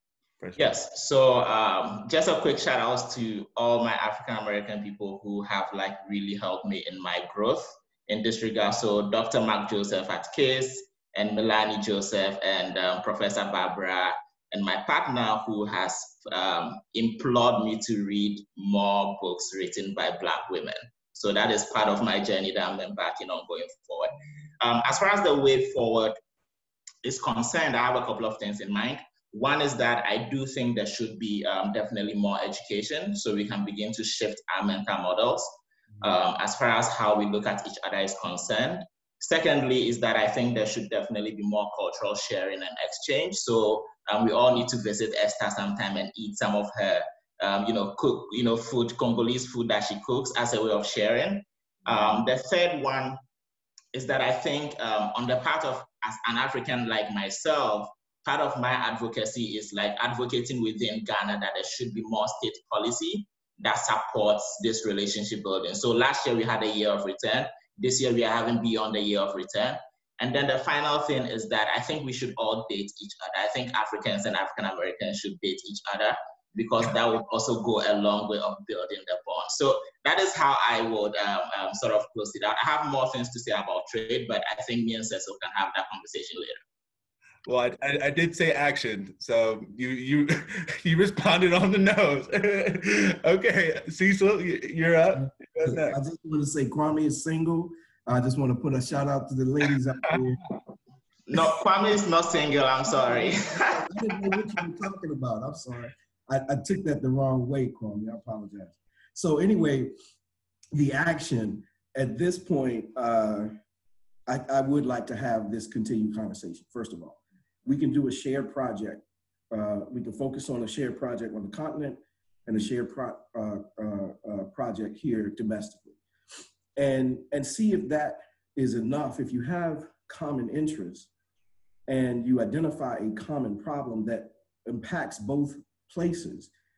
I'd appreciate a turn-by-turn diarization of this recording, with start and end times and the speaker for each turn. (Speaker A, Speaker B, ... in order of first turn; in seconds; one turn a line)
Speaker A: 0.4-0.7
Speaker B: 0.6-26.2
Speaker B: 27.0-53.2
Speaker B: 53.9-86.6
Speaker A: 87.5-96.0
Speaker C: 95.6-100.5
Speaker B: 101.3-103.9
Speaker C: 102.9-109.9
Speaker C: 110.7-113.5
Speaker C: 114.3-126.0
Speaker C: 126.8-131.1
Speaker C: 131.9-136.5